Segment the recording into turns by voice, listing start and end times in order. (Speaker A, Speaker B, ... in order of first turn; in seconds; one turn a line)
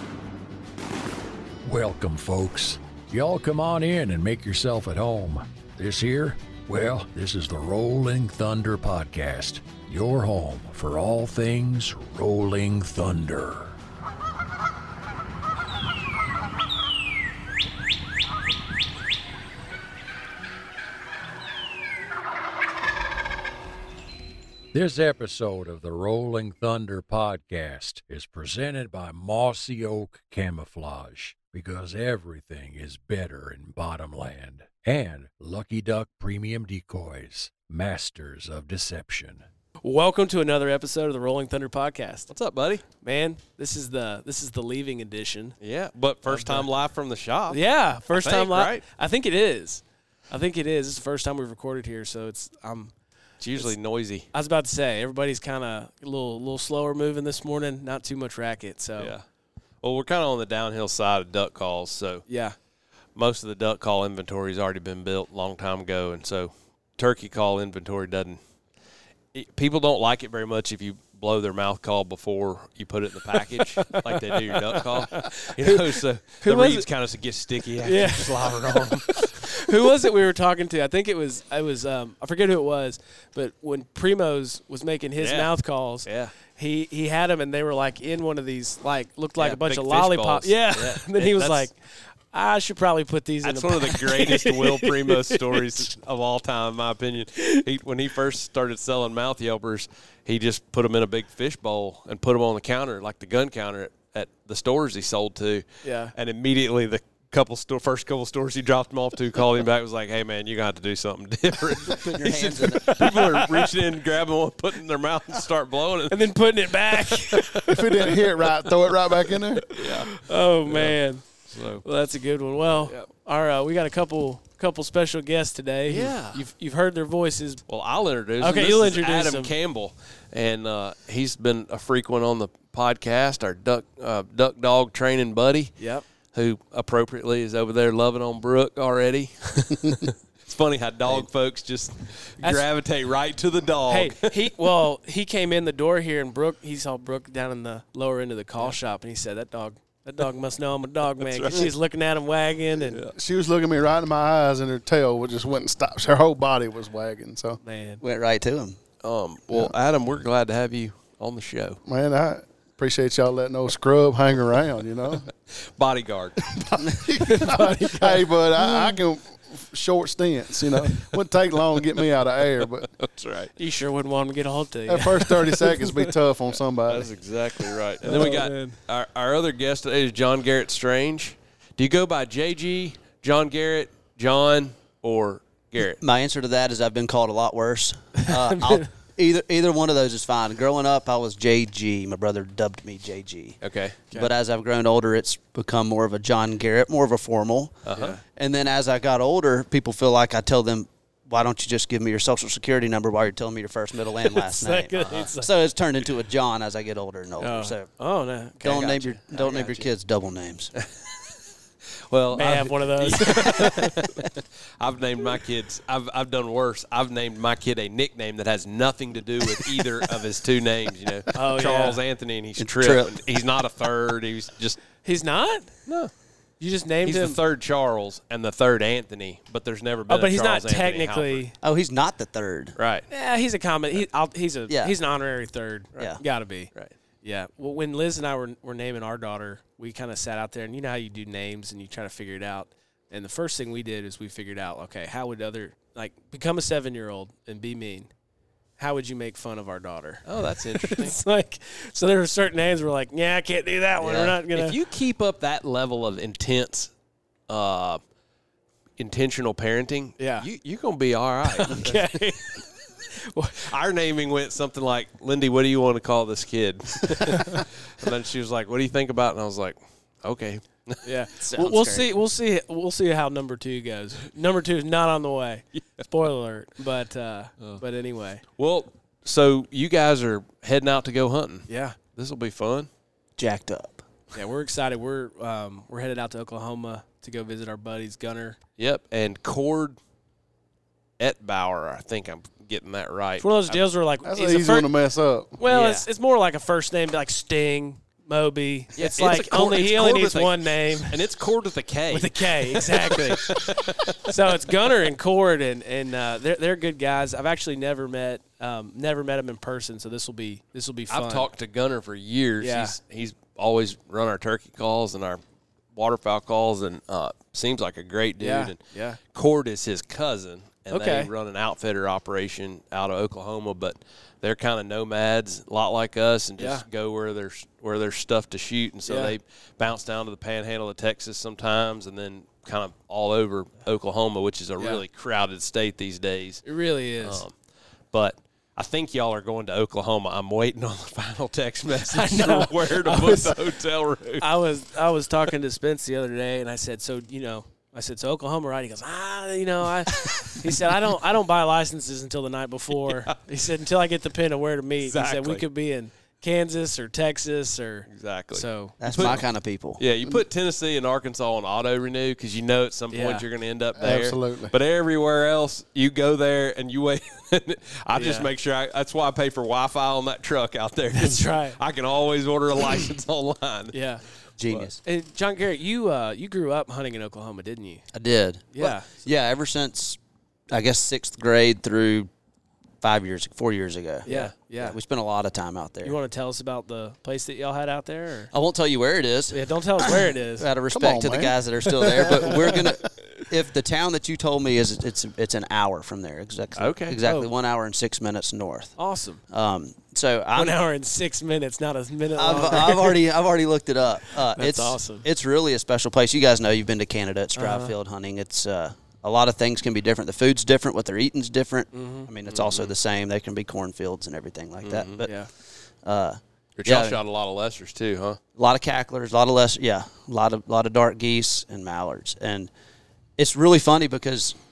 Speaker A: 1.6-13.8
Speaker A: 24.7-39.4
Speaker B: 39.8-42.3
Speaker C: 42.3-42.8
Speaker B: 43.0-45.6
Speaker C: 45.6-47.6
Speaker B: 46.3-46.7
Speaker B: 47.5-52.9
Speaker C: 48.1-48.8
Speaker C: 53.4-54.3
Speaker B: 54.3-59.1
Speaker C: 59.0-59.2
Speaker C: 59.8-62.2
Speaker B: 62.3-62.5
Speaker C: 63.2-68.4
Speaker C: 69.3-79.4
Speaker B: 73.3-76.9
Speaker B: 77.8-95.9
Speaker C: 85.2-85.5
Speaker C: 86.0-86.3
Speaker C: 89.4-91.7
Speaker C: 93.4-116.3
Speaker B: 105.8-106.1
Speaker D: 111.9-112.9
Speaker B: 112.7-113.7
Speaker B: 116.1-118.5
Speaker C: 116.9-118.2
Speaker E: 117.7-119.7
Speaker C: 119.7-121.0
Speaker B: 119.7-121.3
Speaker C: 121.5-121.8
Speaker B: 121.8-127.6
Speaker C: 122.8-123.1
Speaker C: 125.9-126.4
Speaker C: 127.7-135.7
Speaker B: 128.4-129.5
Speaker B: 135.8-136.0
Speaker C: 136.3-144.3
Speaker B: 142.4-142.7
Speaker B: 143.9-153.1
Speaker C: 151.2-151.7
Speaker E: 153.1-157.6
Speaker B: 157.6-158.0
Speaker D: 158.0-158.8
Speaker C: 159.0-161.8
Speaker E: 161.9-165.3
Speaker C: 165.8-166.4
Speaker E: 166.5-172.9
Speaker B: 167.2-169.0
Speaker C: 172.6-173.5
Speaker B: 173.6-176.1
Speaker E: 174.9-177.1
Speaker C: 176.9-186.0
Speaker B: 178.0-178.8
Speaker D: 186.0-193.6
Speaker B: 188.2-188.9
Speaker C: 193.6-194.1
Speaker D: 194.1-207.9
Speaker C: 197.9-198.2
Speaker B: 197.9-198.2
Speaker B: 204.3-205.5
Speaker C: 205.0-205.3
Speaker B: 207.4-209.9
Speaker D: 208.6-210.7
Speaker C: 212.1-224.8
Speaker B: 212.3-214.0
Speaker B: 221.3-222.0
Speaker D: 222.6-223.2
Speaker B: 225.0-225.7
Speaker B: 226.6-227.4
Speaker C: 227.0-231.4
Speaker B: 230.1-231.6
Speaker D: 231.6-232.8
Speaker C: 232.8-233.1
Speaker B: 233.1-236.7
Speaker D: 234.7-234.9
Speaker B: 237.2-248.1
Speaker B: 248.8-254.8
Speaker C: 250.3-251.2
Speaker D: 254.0-254.4
Speaker C: 254.5-256.9
Speaker C: 257.5-258.0
Speaker C: 259.0-262.6
Speaker B: 260.2-260.5
Speaker B: 261.5-263.7
Speaker C: 263.6-271.1
Speaker B: 271.0-278.4
Speaker D: 271.4-272.1
Speaker C: 275.8-276.1
Speaker C: 278.6-282.9
Speaker B: 281.7-282.0
Speaker D: 283.4-284.0
Speaker B: 284.3-288.6
Speaker C: 288.8-290.0
Speaker C: 291.2-293.8
Speaker B: 293.4-294.9
Speaker E: 294.2-295.6
Speaker B: 295.6-301.2
Speaker C: 295.7-296.1
Speaker C: 299.0-304.3
Speaker B: 302.1-311.5
Speaker C: 311.1-315.4
Speaker B: 312.6-313.0
Speaker C: 315.9-336.6
Speaker B: 318.4-319.2
Speaker B: 320.9-321.3
Speaker B: 326.6-326.9
Speaker B: 329.1-329.3
Speaker B: 336.6-337.4
Speaker C: 337.2-337.5
Speaker C: 338.1-344.5
Speaker B: 342.1-343.7
Speaker B: 344.4-359.0
Speaker C: 350.1-350.6
Speaker C: 352.9-353.3
Speaker C: 355.0-355.6
Speaker C: 358.1-359.4
Speaker D: 359.0-360.0
Speaker C: 360.0-373.9
Speaker B: 363.1-363.4
Speaker E: 364.0-364.7
Speaker B: 368.1-368.5
Speaker B: 371.2-371.8
Speaker B: 373.9-374.2
Speaker D: 374.6-375.0
Speaker B: 375.0-378.0
Speaker D: 378.1-380.2
Speaker B: 378.7-379.1
Speaker D: 380.7-382.3
Speaker D: 383.0-386.2
Speaker B: 384.3-385.0
Speaker C: 384.3-384.5
Speaker B: 386.0-388.5
Speaker D: 388.5-398.9
Speaker B: 389.5-390.7
Speaker E: 390.9-392.9
Speaker B: 391.9-392.4
Speaker C: 396.8-397.2
Speaker B: 397.2-397.5
Speaker B: 399.0-399.4
Speaker D: 399.5-400.8
Speaker B: 400.6-403.2
Speaker D: 402.4-415.3
Speaker B: 404.6-405.3
Speaker B: 407.6-407.9
Speaker B: 411.9-412.3
Speaker C: 412.5-412.9
Speaker C: 414.8-415.3
Speaker B: 415.2-415.5
Speaker D: 416.1-417.2
Speaker C: 416.8-418.4
Speaker D: 418.6-422.7
Speaker D: 423.4-424.6